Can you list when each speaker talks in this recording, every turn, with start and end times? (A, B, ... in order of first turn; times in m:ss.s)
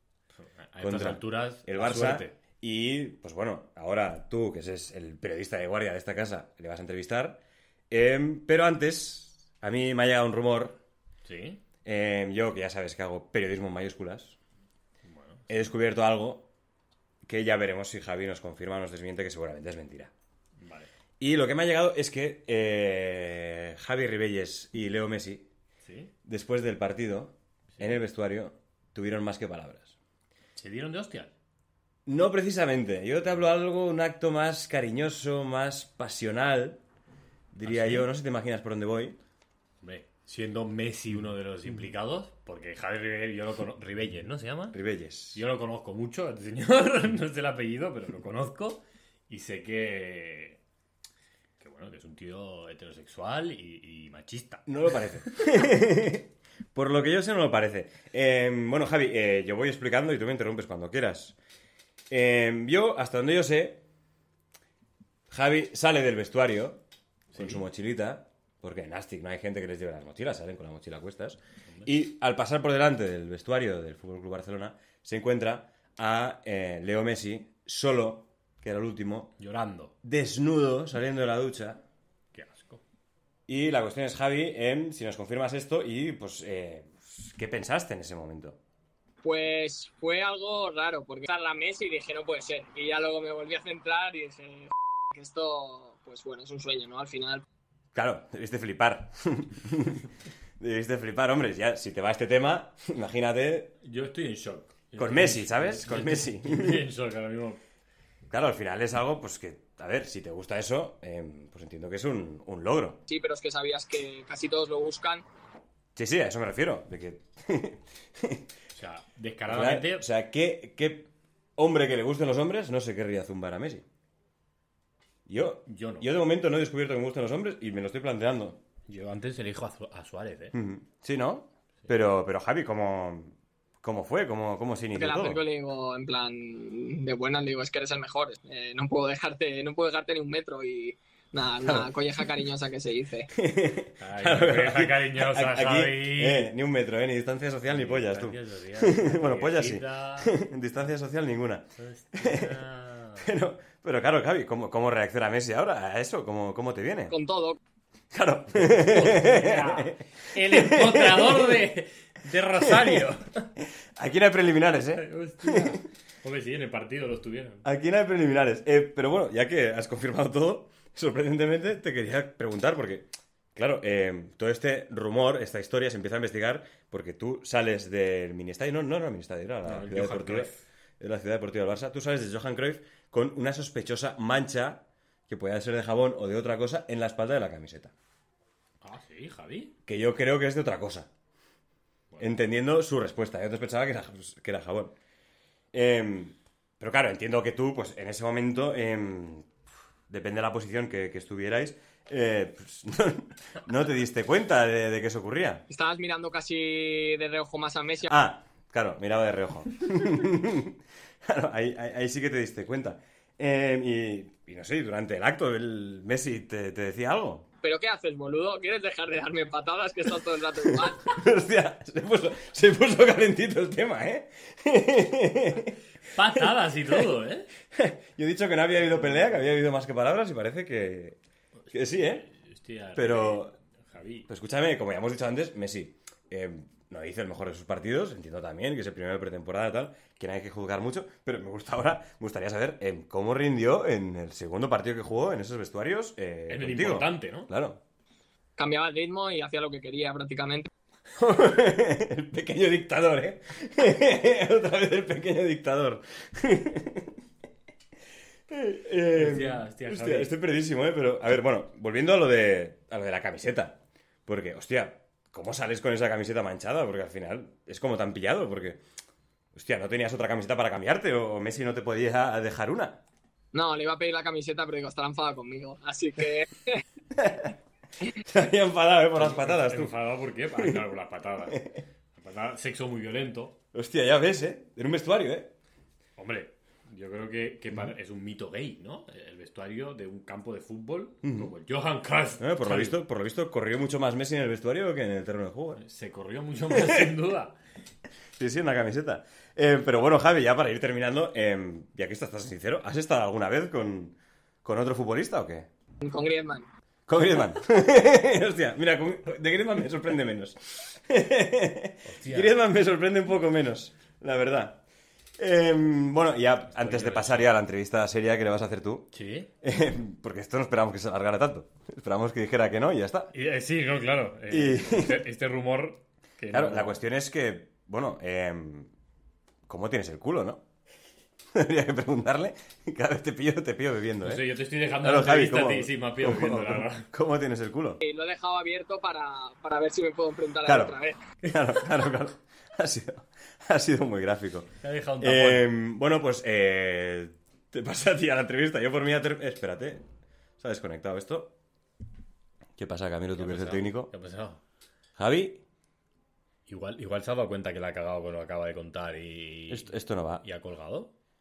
0:00.4-0:02.4 A
0:00.8-0:10.8 B
0:11.2-0:11.6 A
0:11.8-0:14.4 B
0:15.0-0:15.5 A
0:15.5-0:16.5 B
0:17.2-0:20.1 B
0:20.6-0:20.9 A
0:21.2-0:25.5 B
0:25.8-0:26.1 A
0:26.2-0:30.0 B
0:27.7-0:28.0 A
0:30.6-0:31.3 A
0:32.0-0:36.8 B
0:37.5-0:39.2 B
0:37.6-0:38.1 A
0:39.8-0:44.8 A
0:44.7-0:45.4 B
0:45.3-0:50.6 A
0:51.6-0:54.6 A
0:54.6-1:01.4 B
1:02.1-1:03.8 B
1:05.3-1:06.8 B
1:07.3-1:07.6 A
1:07.3-1:19.3 B
1:19.4-1:19.9 A
1:20.0-1:21.8 B
1:22.3-1:22.8 A
1:23.5-1:28.6 B
1:29.2-1:37.4 C
1:37.9-1:43.7 B
1:43.8-1:47.6 A
1:45.0-1:46.8 B
1:48.3-1:53.0 B
1:53.1-1:55.2 C
1:55.9-1:58.4 B
1:58.7-2:00.0 A
1:59.5-2:03.8 B
2:05.2-2:08.6 B
2:05.6-2:06.1 A
2:08.9-2:10.5 A
2:10.5-2:15.4 B
2:14.9-2:23.3 C
2:21.6-2:21.9 B
2:23.3-2:32.6 B
2:24.0-2:26.5 A
2:27.7-2:30.3 A
2:31.8-2:33.3 A
2:33.2-2:37.1 B
2:37.1-2:37.6 C
2:38.1-2:41.6 B
2:38.6-2:43.4 A
2:42.6-2:43.0 B
2:43.6-2:45.8 B
2:44.9-2:47.6 A
2:47.6-3:07.9 B
2:59.6-3:00.6 A
3:08.8-3:09.7 A
3:09.8-3:11.1 B
3:12.2-3:14.9 B
3:15.7-3:19.5 B
3:20.1-3:25.6 B
3:25.7-3:28.1 C
3:28.1-3:37.5 B
3:37.6-3:41.1 C
3:40.7-3:45.8 B
3:46.1-3:47.5 A
3:46.3-3:47.1 B
3:47.7-3:51.2 B
3:51.7-3:52.3 B
3:51.9-3:54.3 A
3:52.9-3:53.6 B
3:54.3-4:07.8 B
4:06.5-4:07.5 A
4:08.6-4:10.7 C
4:11.2-4:17.2 B
4:18.5-4:28.8 B
4:19.1-4:20.3 A
4:29.5-4:33.0 B
4:33.5-4:36.8 C
4:37.1-4:37.5 B
4:38.1-4:39.9 B
4:39.1-4:43.6 A
4:41.5-4:41.8 B
4:43.7-4:45.5 B
4:46.2-4:53.0 A
4:51.2-4:51.5 B
4:52.4-4:55.8 B
4:55.8-4:57.6 A
4:56.7-4:57.1 B
4:58.4-5:05.7 B
5:06.0-5:06.7 C
5:07.1-5:14.8 B
5:12.0-5:12.6 A
5:15.4-5:23.3 B
5:16.7-5:17.5 A
5:19.1-5:19.5 A
5:23.3-5:27.0 A
5:24.5-5:25.2 B
5:26.5-5:28.9 B
5:29.7-5:30.6 B
5:31.5-5:38.0 B
5:34.2-5:37.1 A
5:38.0-5:41.2 C
5:40.6-5:50.0 B
5:44.8-5:45.7 A
5:50.6-5:51.5 B
5:52.8-5:54.1 B
5:53.4-5:54.6 A
5:55.2-5:55.6 B
5:56.7-5:59.9 A
5:59.7-6:00.4 B
6:00.4-6:01.1 A